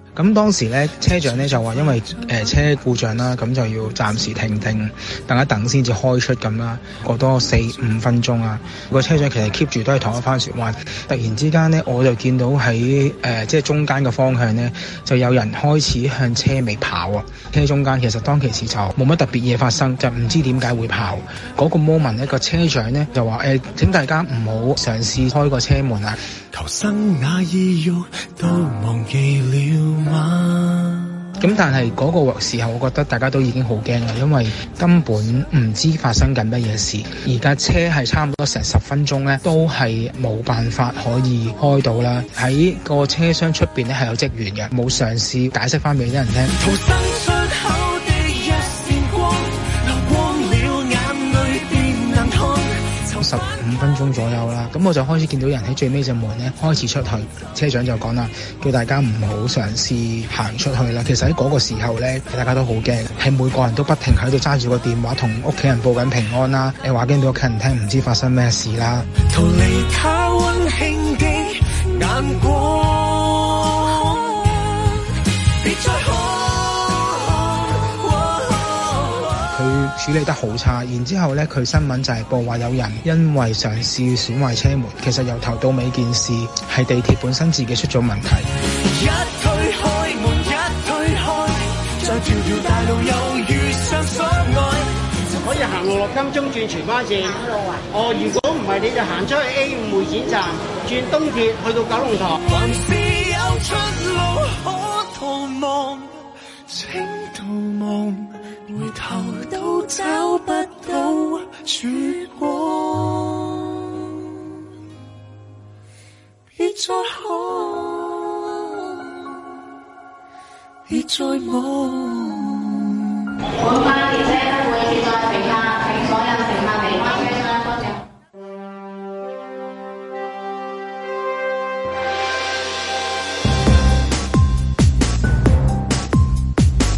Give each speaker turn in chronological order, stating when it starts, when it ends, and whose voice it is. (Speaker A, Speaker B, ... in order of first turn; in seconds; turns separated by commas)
Speaker A: 0.1-26.2, Speaker B: 1.6-2.3, Speaker B: 26.5-31.3, Speaker A: 31.4-46.5, Speaker B: 46.6-53.4, Speaker A: 53.2-69.1, Speaker B: 69.3-75.1, Speaker B: 75.6-79.5, Speaker A: 79.5-88.5, Speaker B: 88.9-94.9, Speaker C: 95.4-102.4, Speaker B: 102.4-106.1, Speaker B: 106.7-113.9, Speaker B: 116.5-119.0, Speaker B: 120.9-123.0, Speaker D: 123.6-128.0